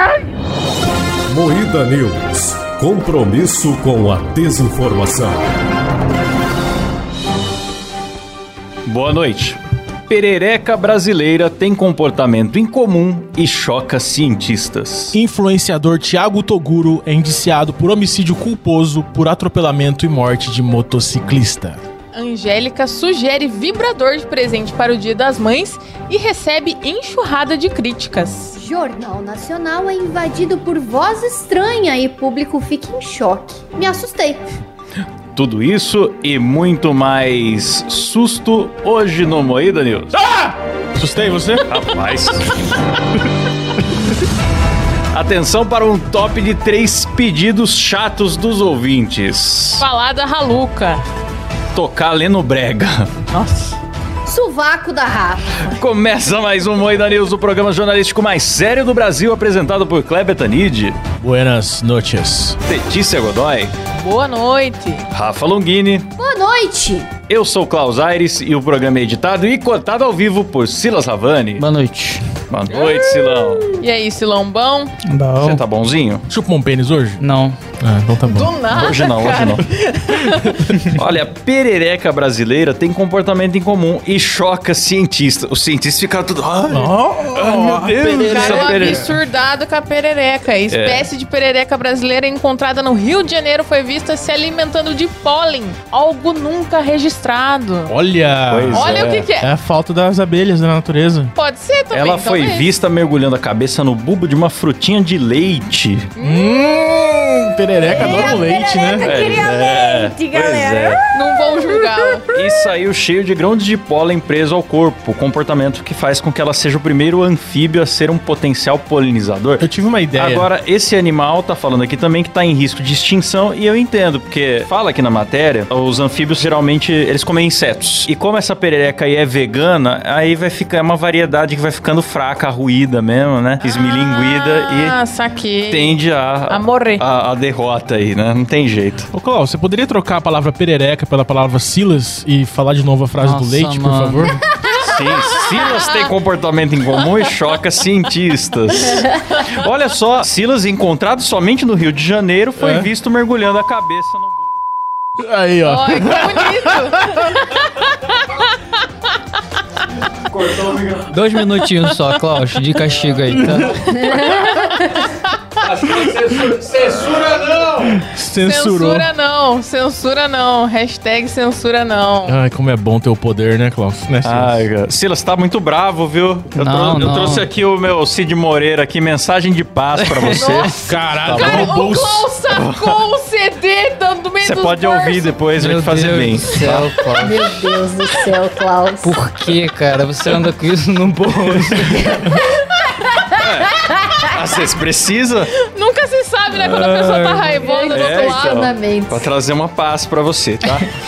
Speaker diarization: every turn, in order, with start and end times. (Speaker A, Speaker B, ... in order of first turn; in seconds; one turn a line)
Speaker A: 1.3-5.4
Speaker B: 8.9-9.6
Speaker B: 10.1-15.2
Speaker C: 15.1-21.8
Speaker D: 22.1-28.6
Speaker E: 28.6-34.4
Speaker B: 35.3-40.1
Speaker C: 40.2-41.6
Speaker B: 41.7-42.5
Speaker B: 45.1-49.9
Speaker D: 49.8-51.0
Speaker B: 51.7-53.1
Speaker D: 53.3-53.8
Speaker E: 54.3-55.4
Speaker B: 55.7-61.0
Speaker C: 61.2-62.6
Speaker B: 62.7-63.7
Speaker D: 64.0-65.0
Speaker B: 65.1-66.1
Speaker E: 66.2-67.1
Speaker B: 67.3-71.7
Speaker F: 71.6-72.2
Speaker B: 72.5-73.7
Speaker D: 73.8-74.9
Speaker F: 75.0-75.6
Speaker B: 75.4-76.2
Speaker C: 76.3-77.2
Speaker F: 77.2-77.6
Speaker C: 77.8-78.6
Speaker D: 78.3-80.7
Speaker B: 78.7-79.6
Speaker B: 80.8-89.1
Speaker C: 86.7-89.1
Speaker D: 88.3-97.9
Speaker B: 90.7-91.1
Speaker C: 97.9-101.3
Speaker B: 98.5-99.3
Speaker D: 98.7-99.5
Speaker D: 101.3-102.7
Speaker B: 101.9-106.1
Speaker D: 106.2-106.5
Speaker C: 106.2-109.1
Speaker E: 107.8-111.0
Speaker B: 109.0-111.0
Speaker D: 111.1-112.2
Speaker E: 112.0-112.2
Speaker B: 112.3-135.0
Speaker C: 119.6-120.5
Speaker D: 133.6-137.1
Speaker B: 135.7-139.1
Speaker C: 139.1-144.4
Speaker F: 143.2-144.3
Speaker B: 144.8-154.4
Speaker D: 144.8-146.1
Speaker D: 146.9-147.3
Speaker C: 152.6-152.9
Speaker C: 155.2-157.3
Speaker D: 155.6-157.4
Speaker B: 160.3-161.2
Speaker F: 161.1-163.8
Speaker D: 161.6-161.9
Speaker C: 163.3-163.8
Speaker B: 163.9-164.6
Speaker D: 163.9-165.0
Speaker E: 164.1-165.0
Speaker B: 165.6-168.0
Speaker C: 168.0-169.1
Speaker D: 168.4-172.4
Speaker C: 172.2-174.7
Speaker B: 174.2-181.8
Speaker F: 176.6-177.5
Speaker F: 180.0-180.7
Speaker D: 180.3-185.4
Speaker C: 180.9-182.3
Speaker B: 182.5-183.0
Speaker B: 184.4-186.9
Speaker F: 185.6-187.4
Speaker E: 187.2-189.2
Speaker F: 189.0-192.2
Speaker B: 191.4-192.2
Speaker E: 192.5-193.4
Speaker B: 193.4-195.5
Speaker D: 195.5-198.7
Speaker F: 196.6-197.6
Speaker E: 197.6-199.3
Speaker B: 197.9-200.9